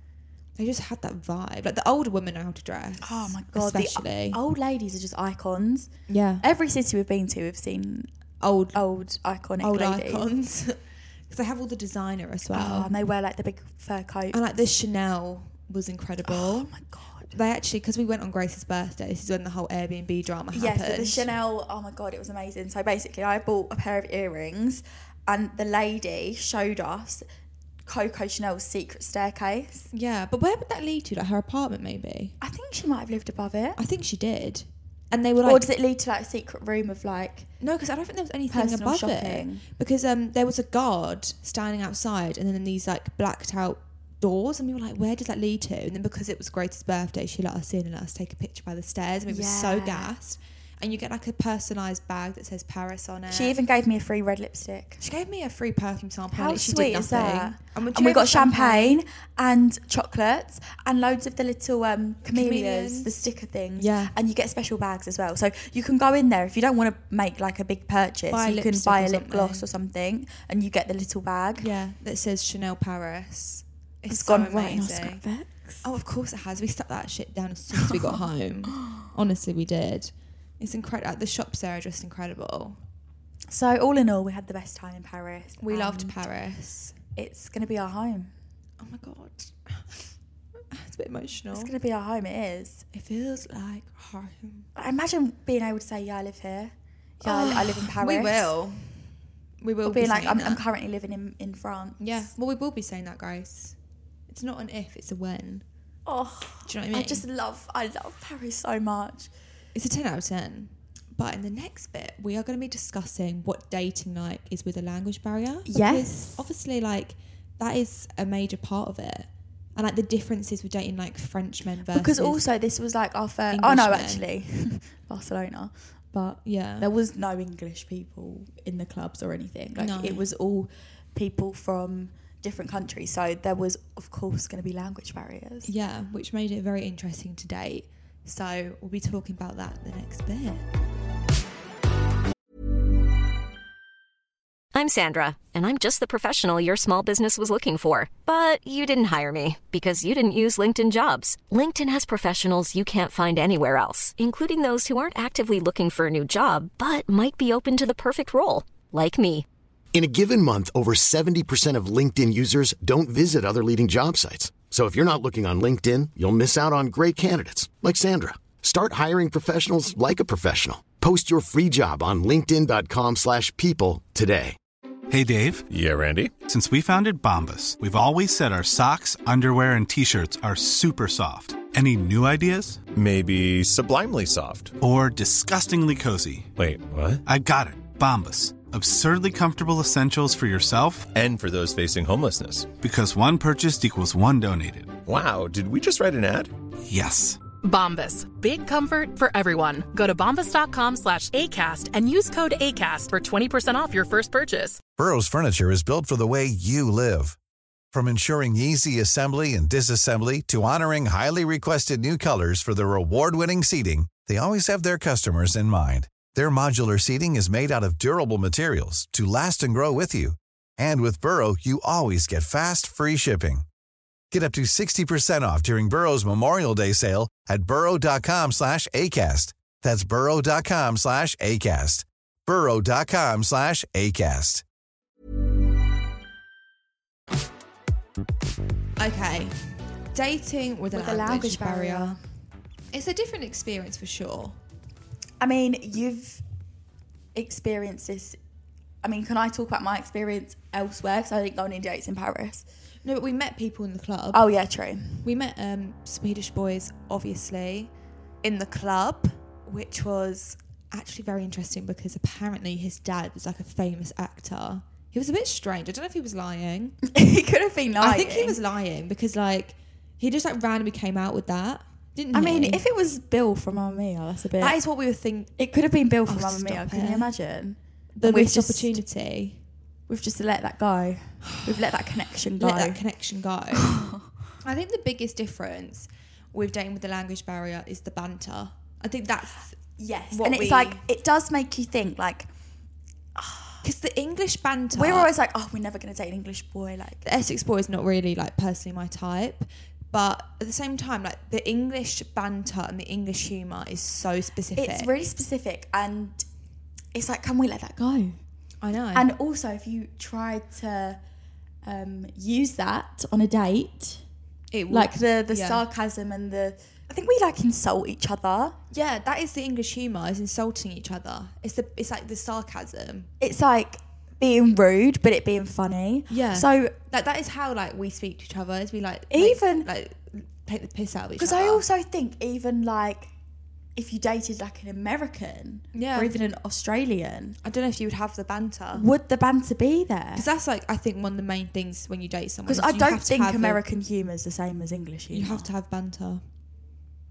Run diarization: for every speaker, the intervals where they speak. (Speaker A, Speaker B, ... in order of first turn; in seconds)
Speaker A: 0.6-4.4, 6.1-6.4, 8.4-8.8, 9.6-12.9, 14.3-16.7, 17.3-21.3, 29.9-32.4, 33.8-35.6, 37.6-53.6, 55.0-59.0, 62.2-63.1, 63.8-64.1, 68.3-69.7, 71.6-75.2, 75.8-82.8, 85.6-87.0, 88.8-90.0, 90.7-91.7, 92.9-94.7, 97.2-99.1, 99.6-100.6, 102.0-103.7, 104.3-105.6, 106.6-107.2, 109.7-122.4, 123.5-124.2, 126.4-126.9, 129.8-130.2, 135.6-140.6, 239.0-242.2, 242.9-244.6, 253.0-254.4, 255.2-267.0, 268.0-272.8, 274.6-275.5, 276.2-277.3, 278.1-279.6, 281.4-281.9, 282.6-289.7, 290.3-291.0, 293.8-295.3, 297.2-305.1, 308.8-309.3, 314.7-315.8, 318.9-323.3, 326.3-331.8, 335.9-336.4, 337.6-339.1, 340.3-343.8, 345.3-346.4
Speaker B: 3.0-5.9, 6.4-8.1, 8.7-10.3, 12.5-14.4, 16.2-17.3, 20.5-27.2, 27.8-29.9, 32.4-33.8, 35.4-37.5, 38.5-39.6, 49.3-50.1, 53.3-55.0, 56.3-71.7, 74.1-75.8, 77.8-78.2, 83.5-86.2, 87.2-88.3, 91.5-92.8, 94.8-98.5, 99.8-102.3, 106.0-109.3, 115.7-116.5, 121.9-135.7, 240.9-242.2, 245.4-246.4, 247.3-248.4, 249.0-252.6, 254.3-255.3, 267.1-268.6, 272.3-274.8, 275.6-279.0, 280.1-283.0, 283.7-284.2, 290.0-292.5, 293.4-293.8, 294.9-297.2, 304.8-306.4, 307.1-308.4, 309.1-311.2, 311.8-314.2, 314.9-318.8, 323.4-326.9, 329.3-329.9, 331.4-333.3, 333.9-337.6, 338.9-340.4, 342.6-345.7
Speaker C: 144.7-159.4
Speaker D: 159.9-174.6
Speaker E: 175.1-175.7, 176.4-182.8, 184.8-186.5, 187.2-191.1, 192.8-195.0, 196.9-197.4
Speaker F: 175.7-176.3, 182.9-184.7, 186.6-187.2, 191.1-192.7, 195.1-196.5
Speaker G: 197.6-204.8
Speaker H: 205.0-207.3, 207.9-223.6, 224.3-234.6